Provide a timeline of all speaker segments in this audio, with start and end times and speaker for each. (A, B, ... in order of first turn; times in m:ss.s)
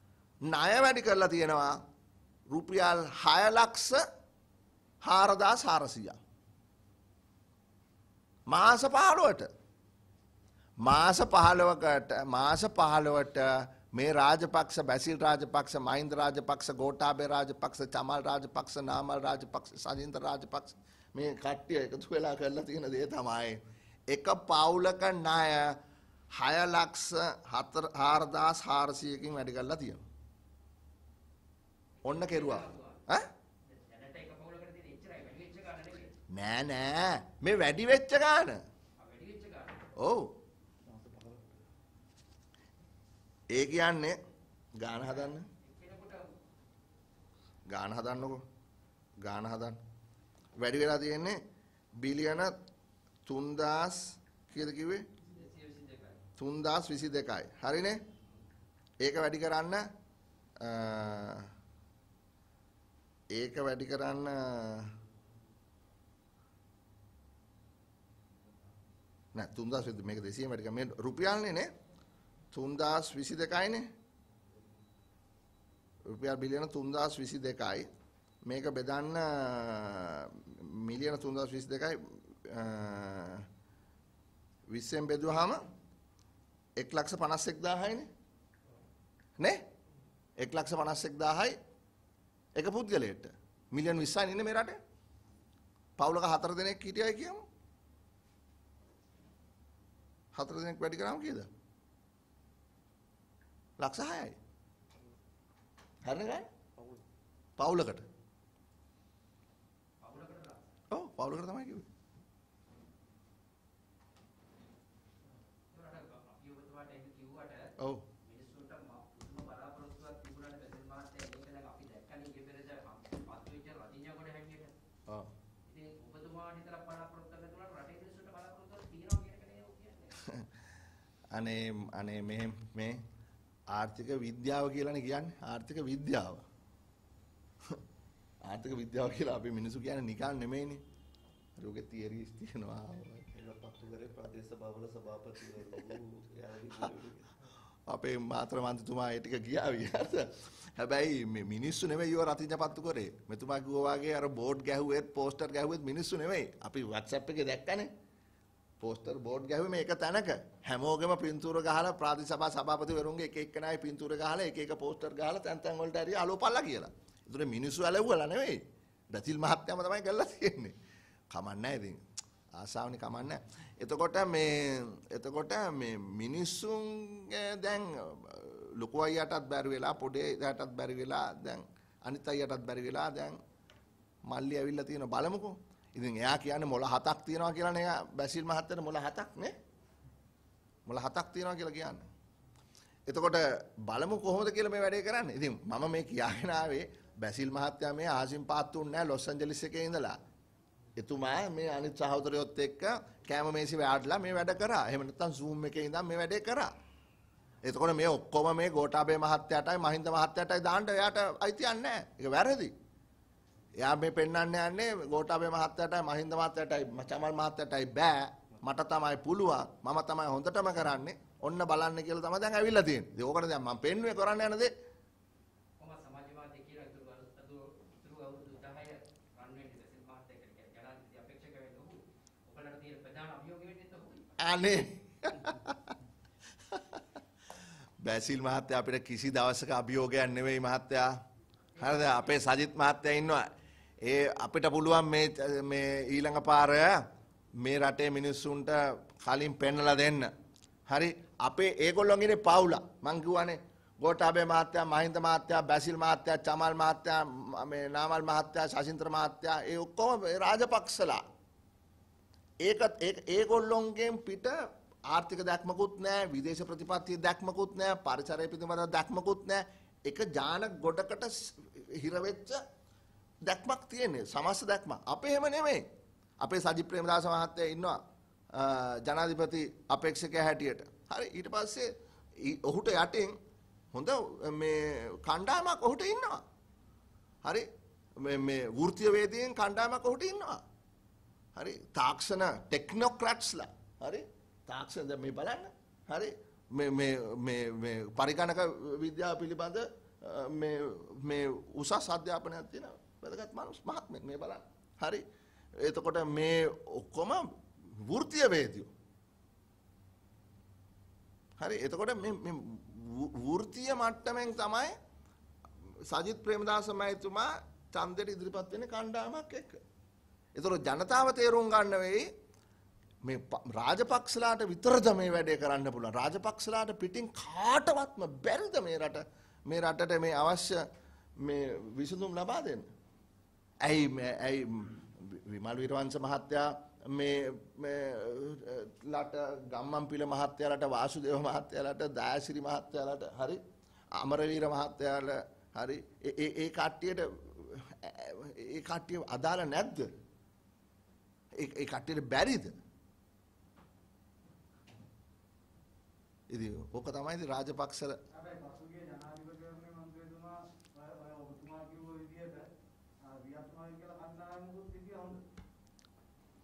0:00.5-0:01.8 A
0:02.5-0:04.0 A
0:05.0-0:06.2 A
0:08.5-0:09.5 A
0:10.8-0:25.8 A
0:26.3-0:30.0 A
0:32.0-0:33.2 A
0:32.1-0:33.0 B
0:33.7-0:36.1 B
0:36.3-0:38.6 A
0:39.0-0:39.8 B
0:40.0-0:40.3 A
0:40.8-0:41.6 C
0:43.5-0:44.2 A
0:44.8-0:45.4 A
0:45.6-0:46.3 B
0:47.7-0:48.4 A
0:49.2-0:49.8 A
0:50.6-0:51.4 A
0:52.0-0:52.5 A
0:53.2-0:55.0 A
0:55.2-0:56.2 B
0:56.4-0:58.0 A
0:59.0-0:59.8 A
1:00.6-1:01.5 A
1:03.3-1:04.9 A
1:09.3-1:11.7 A
1:12.5-1:13.9 A
1:16.1-1:17.9 A
1:18.4-1:23.4 A
1:24.7-1:25.6 A
1:26.8-1:28.1 A
1:30.4-1:31.6 A
1:32.6-1:34.8 A
1:36.0-1:37.4 A
1:40.3-1:41.5 A
1:43.8-1:44.4 A
1:46.0-1:46.5 A
1:46.8-1:47.0 C
1:47.6-1:48.0 A
1:50.0-1:50.8 B
1:50.9-1:51.9 A
1:55.7-2:04.7 B
2:05.6-2:10.2 B
2:11.3-2:13.0 A
2:13.7-2:16.4 A
2:18.4-2:20.8 A
2:21.6-2:23.3 A
2:23.3-2:27.3 C
2:27.9-2:37.9 A
2:38.8-2:50.7 A
2:51.3-2:52.0 A
2:52.6-3:03.4 A
3:04.3-3:09.5 A
3:10.9-3:12.1 A
3:13.1-3:20.2 A
3:21.0-3:26.7 A
3:27.6-3:32.7 A
3:33.8-3:44.7 A
3:45.8-3:54.4 B
3:54.4-3:55.9 A
3:56.7-3:57.0 A
3:58.0-4:01.1 A
4:01.8-4:02.3 B
4:01.8-4:03.5 A
4:04.0-4:07.0 A
4:07.6-4:10.3 A
4:10.9-4:21.2 A
4:22.6-4:24.6 A
4:25.1-4:32.6 A
4:33.4-4:35.8 A
4:36.4-4:38.0 A
4:38.5-4:41.9 A
4:42.4-4:43.3 A
4:43.9-4:46.4 A
4:48.2-4:50.6 A
4:51.6-5:05.2 A
5:05.8-5:07.5 A
5:08.0-5:08.9 A
5:11.6-5:15.0 A
5:16.1-5:19.8 A
5:20.6-5:22.3 A
5:23.2-5:30.8 A
5:31.4-5:32.9 A
5:33.8-5:43.6 A
5:44.2-5:50.1 A
5:51.6-5:52.7 A
5:56.5-5:58.2 A
5:58.3-6:02.7 D
6:03.2-6:05.4 D